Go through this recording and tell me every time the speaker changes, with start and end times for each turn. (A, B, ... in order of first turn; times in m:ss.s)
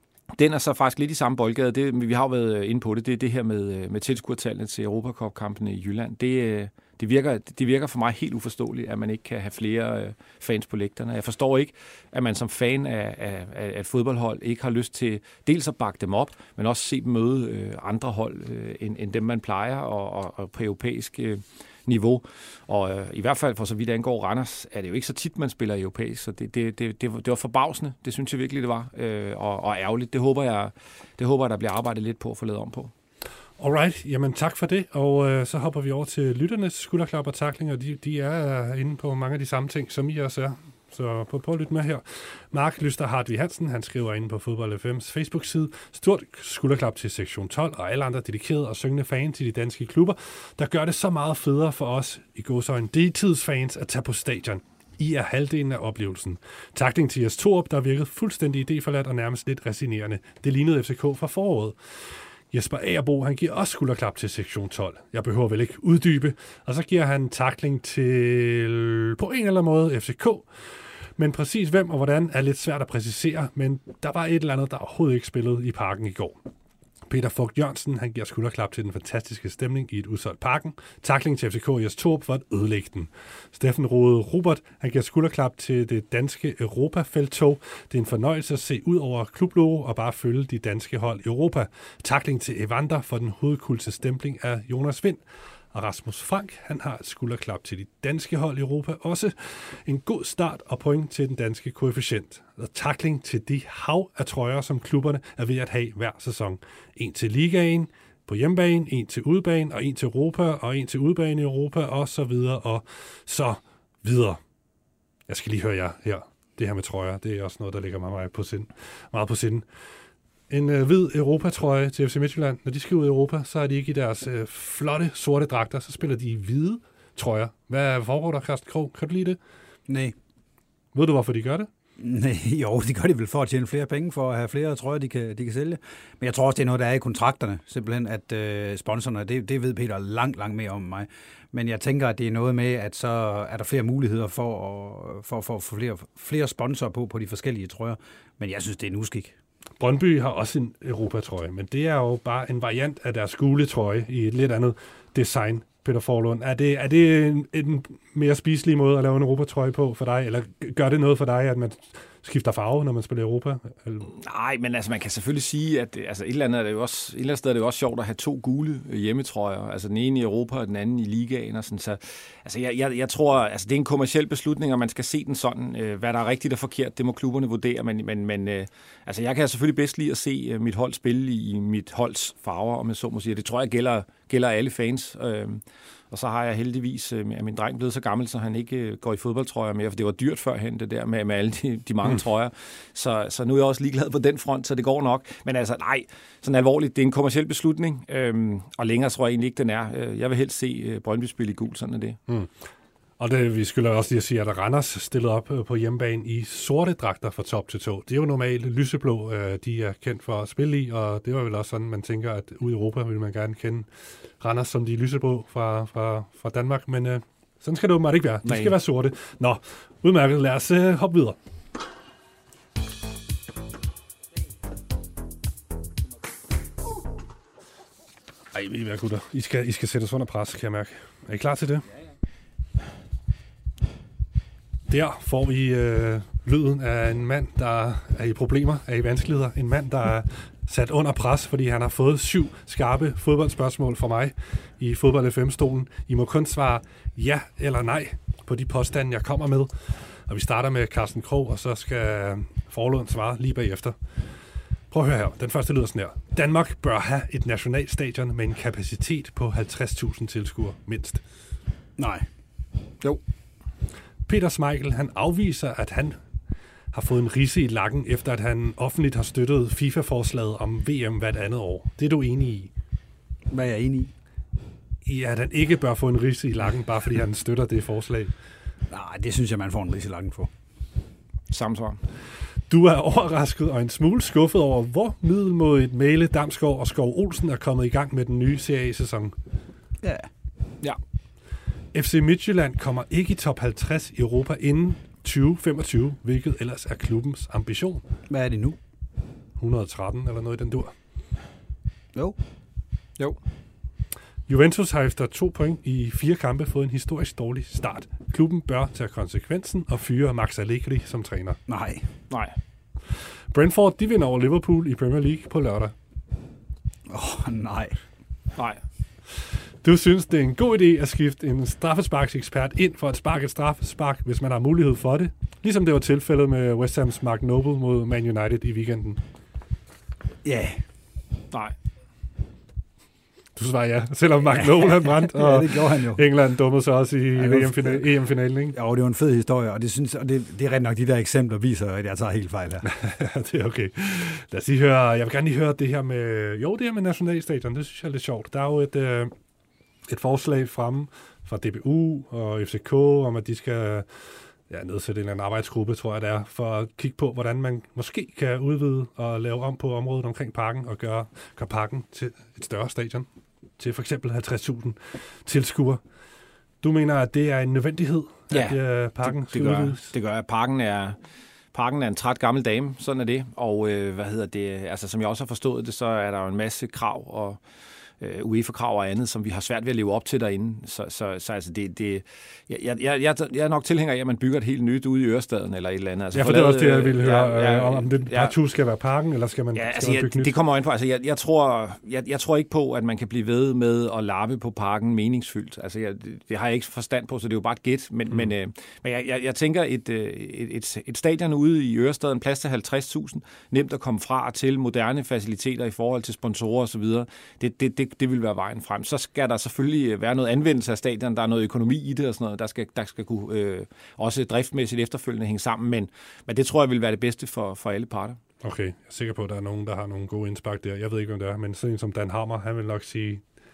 0:00.3-0:32.9 A
0:33.6-1:16.4 B
1:17.1-1:54.4 B
1:55.3-1:59.6 B
2:00.5-2:09.4 B
2:09.9-2:10.2 C
2:10.9-2:11.7 B
2:12.0-2:29.3 C
2:29.8-2:44.1 B
2:44.1-3:22.2 A
3:23.2-3:33.9 B
3:34.4-3:41.4 B
3:38.4-3:38.7 A
3:48.5-3:51.8 B
3:54.9-4:14.0 B
4:14.9-4:21.2 B
4:22.0-4:22.2 C
4:24.3-4:26.2 B
4:26.9-4:32.7 B
4:33.5-4:34.1 C
4:35.0-4:38.3 B
4:38.9-4:40.5 C
4:41.5-4:42.0 A
4:42.7-4:49.3 B
4:50.0-4:50.3 C
4:51.9-4:58.0 B
4:58.3-4:58.8 C
4:59.6-5:00.9 B
5:04.5-5:11.6 B
5:11.7-5:12.1 C
5:12.3-5:12.6 A
5:13.5-5:15.9 B
5:17.1-5:18.0 C
5:19.8-5:29.2 B
5:30.4-5:30.8 C
5:33.6-5:38.8 B
5:34.4-5:36.2 C
5:37.4-5:38.1 C
5:38.7-5:42.9 C
5:42.8-5:49.3 B
5:50.1-6:03.3 B
6:03.8-6:06.0 B
6:06.8-6:10.1 B
6:08.5-6:11.2 A
6:11.7-6:17.6 A
6:18.2-6:28.5 A
6:26.3-6:30.5 B
6:29.7-6:58.4 A
6:58.6-7:03.4 B